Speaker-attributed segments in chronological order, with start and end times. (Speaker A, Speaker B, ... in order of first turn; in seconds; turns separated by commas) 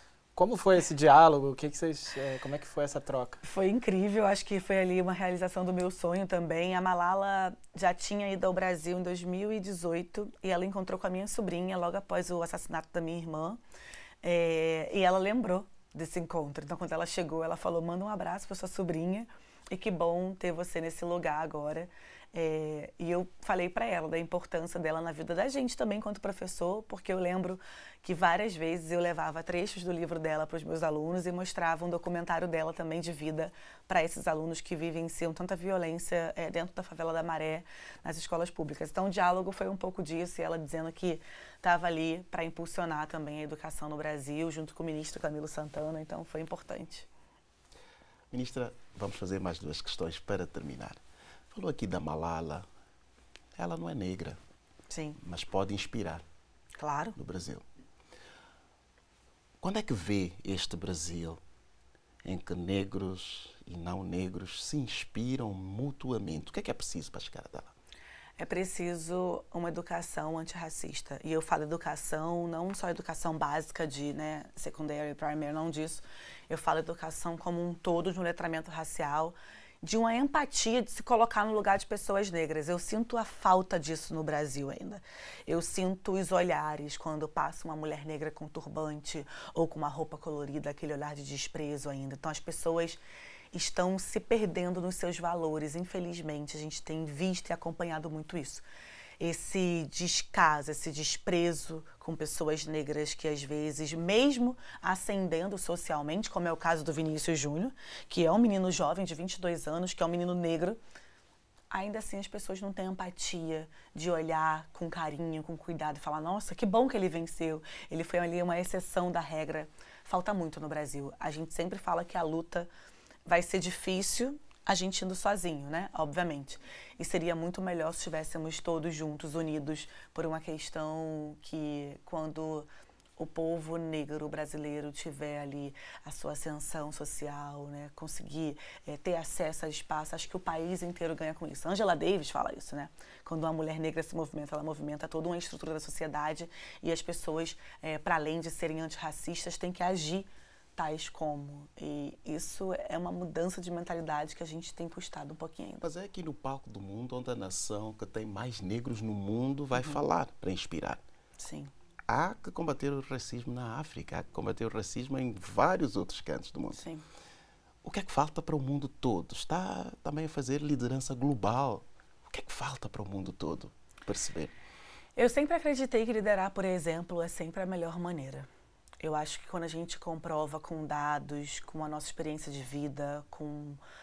Speaker A: 0.3-3.4, Speaker B: 3.4-13.6, Speaker B: 14.2-47.1, Speaker C: 48.3-52.6, Speaker C: 53.5-54.4, Speaker B: 54.9-55.2, Speaker C: 55.2-56.2, Speaker B: 56.7-57.1, Speaker C: 57.1-57.6, Speaker C: 59.6-61.4, Speaker C: 62.2-67.7, Speaker B: 68.4-98.6, Speaker B: 99.2-110.8, Speaker B: 111.7-122.7, Speaker B: 123.2-155.8, Speaker C: 155.8-161.0, Speaker B: 159.7-160.0, Speaker B: 161.4-161.7, Speaker C: 162.1-166.8, Speaker B: 166.7-167.1, Speaker C: 167.8-174.5, Speaker B: 175.2-178.5, Speaker B: 179.0-183.8